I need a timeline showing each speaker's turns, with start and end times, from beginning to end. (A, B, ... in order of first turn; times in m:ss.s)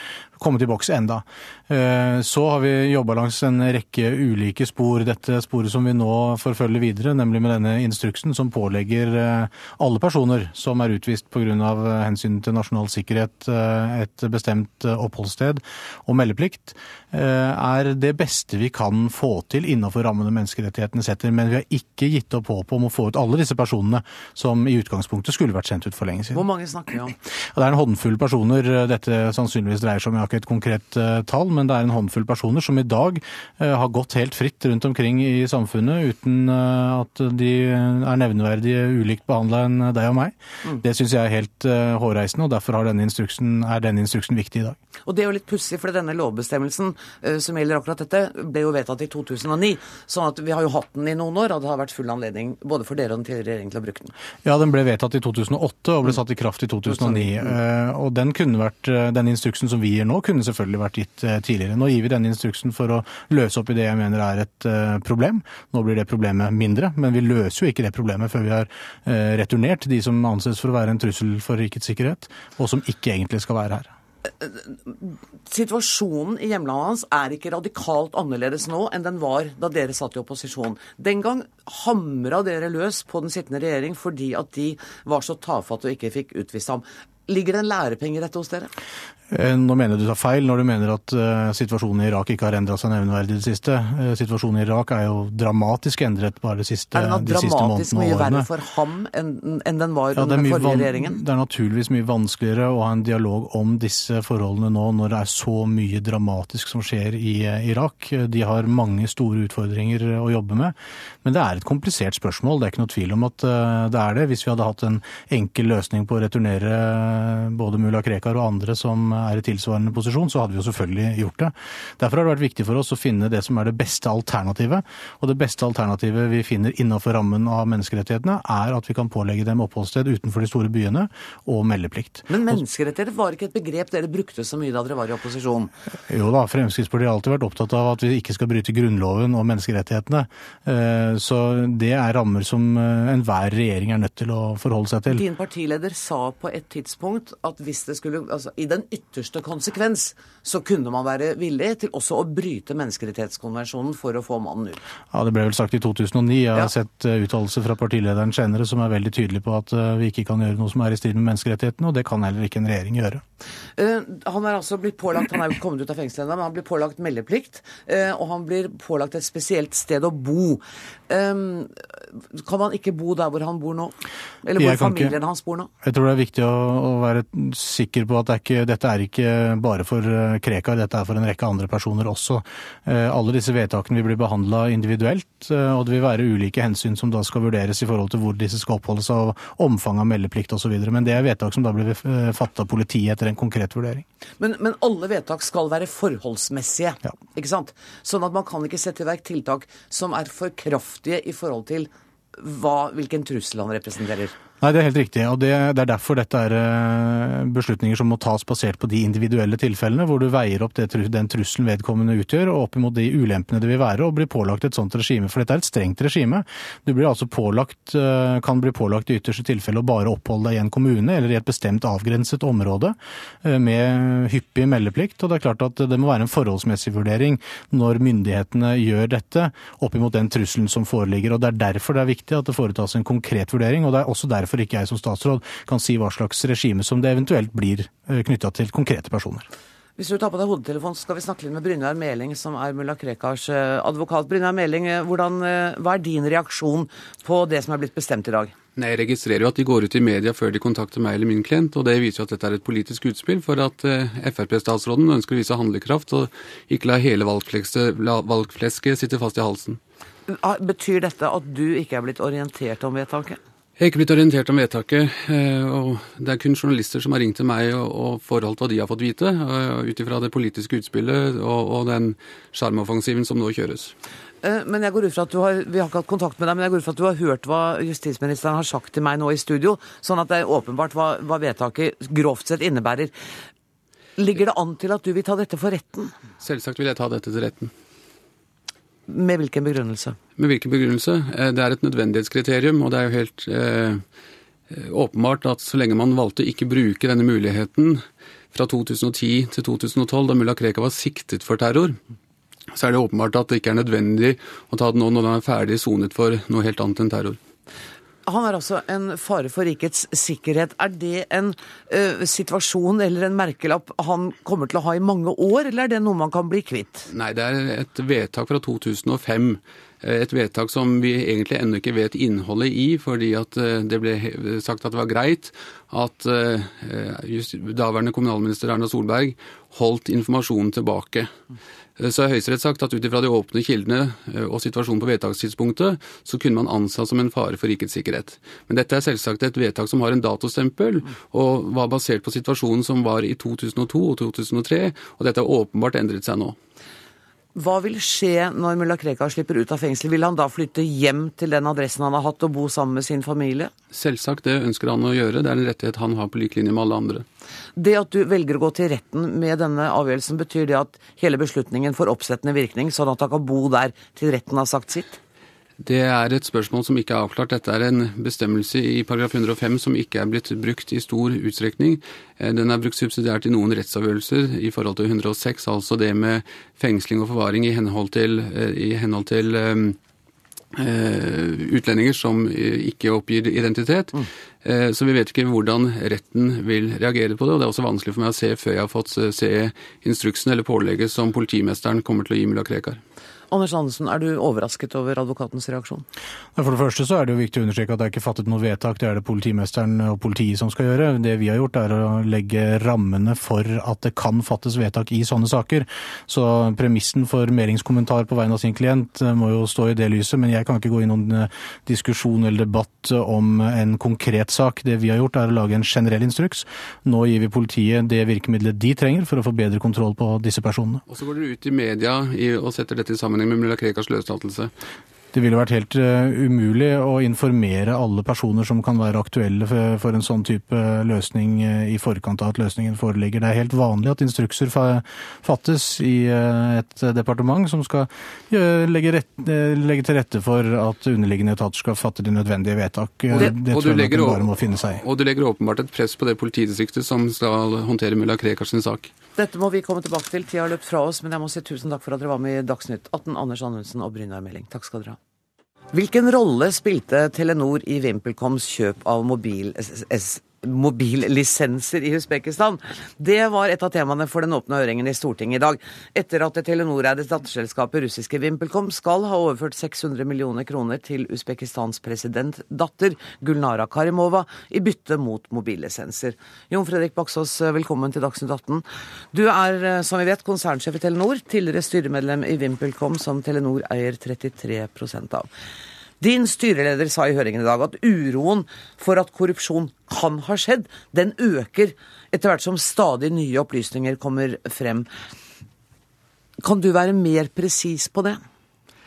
0:00.4-0:26.4 A
0:26.3-0:27.1 B
0:27.5-0:44.8 A
0:45.1-0:54.1 B
0:54.4-1:13.9 A
0:56.9-0:57.5 B
1:14.4-1:28.7 B
1:29.3-1:38.5 A
1:36.9-1:41.2 B
1:40.1-2:12.6 A
2:12.3-2:15.7 B
2:16.1-2:25.2 A
2:25.1-2:34.8 B
2:35.1-2:43.2 A
2:43.8-2:55.7 B
2:54.6-2:55.1 A
2:55.8-3:14.0 A
3:14.4-3:24.3 B
3:24.6-3:59.5 A
4:00.0-4:08.5 B
4:08.8-4:19.8 C
4:20.3-4:23.4 B
4:23.8-4:33.9 C
4:34.4-4:43.1 B
4:44.2-4:46.1 B
4:46.4-4:47.7 C
4:49.1-4:50.2 B
4:50.4-4:54.0 C
4:54.7-5:02.0 C
5:02.7-5:07.4 C
5:08.2-5:17.0 B
5:17.1-5:31.3 C
5:32.0-5:46.6 C
5:47.5-5:53.7 B
5:53.9-5:57.2 C
5:57.8-6:05.2 B
6:05.8-6:20.0 C
6:20.8-6:33.0 C
6:33.5-6:36.0 B
6:36.6-7:01.0 A
7:01.1-7:04.7 C
7:05.3-7:25.0 A
7:23.3-7:29.1 C
7:29.4-7:35.2 B
7:35.9-8:05.5 B
8:06.2-8:15.1 B
8:16.6-8:18.4 B